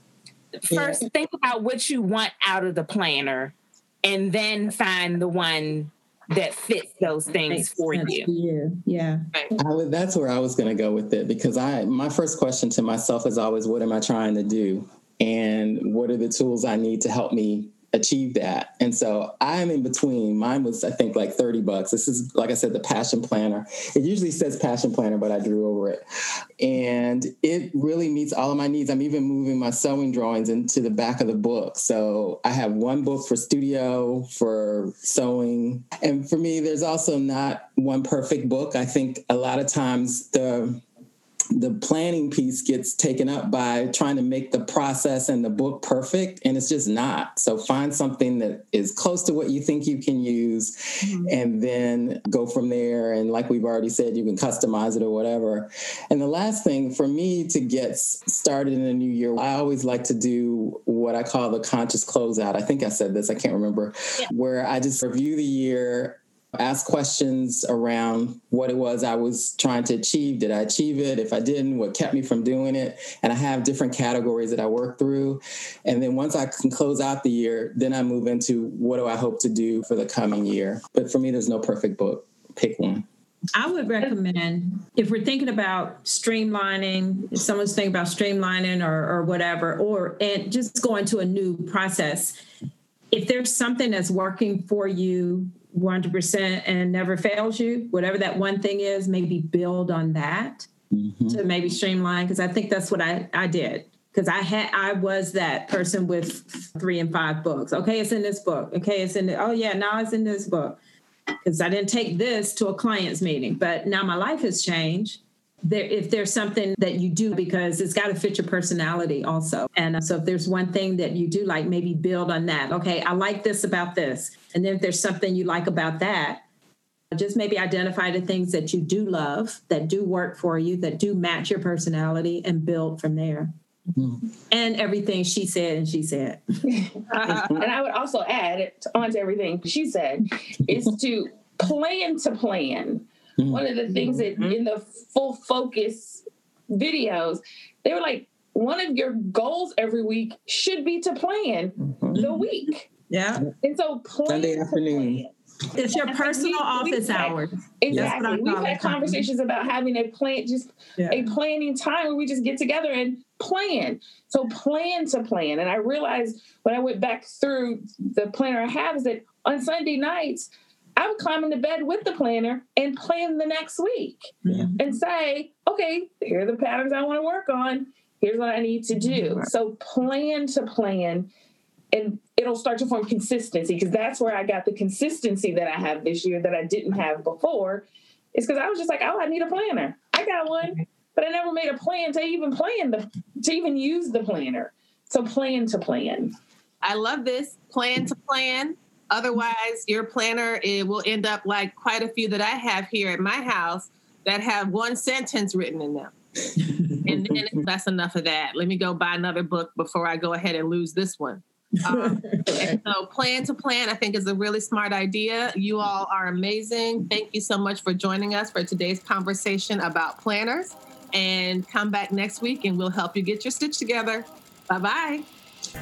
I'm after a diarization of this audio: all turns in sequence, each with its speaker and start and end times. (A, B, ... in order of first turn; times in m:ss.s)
0:00.7-0:08.3 A
0:07.5-0:09.2 B
0:09.6-0:26.0 C
0:26.6-0:40.8 C
0:41.5-1:23.0 C
1:23.5-1:32.4 B
1:33.1-1:40.7 B
1:40.9-1:41.4 C
1:41.3-1:50.8 B
1:51.4-2:06.4 B
2:07.1-2:13.5 B
2:14.0-2:14.2 C
2:14.5-2:16.4 B
2:16.7-2:32.9 D
2:17.1-2:17.6 E
2:17.3-2:17.6 C
2:23.4-2:24.3 C
2:23.9-2:24.5 B
2:31.8-2:32.2 C
2:32.1-2:32.5 B
2:33.1-2:33.4 B
2:33.6-2:35.3 D
2:34.2-2:35.2 C
2:35.7-2:39.2 B
2:36.0-3:01.3 D
2:41.0-2:41.3 B
2:54.4-2:54.8 B
2:59.0-2:59.4 B
3:01.9-3:16.3 D
3:16.8-3:26.1 E
3:27.0-3:27.5 C
3:27.0-3:45.2 E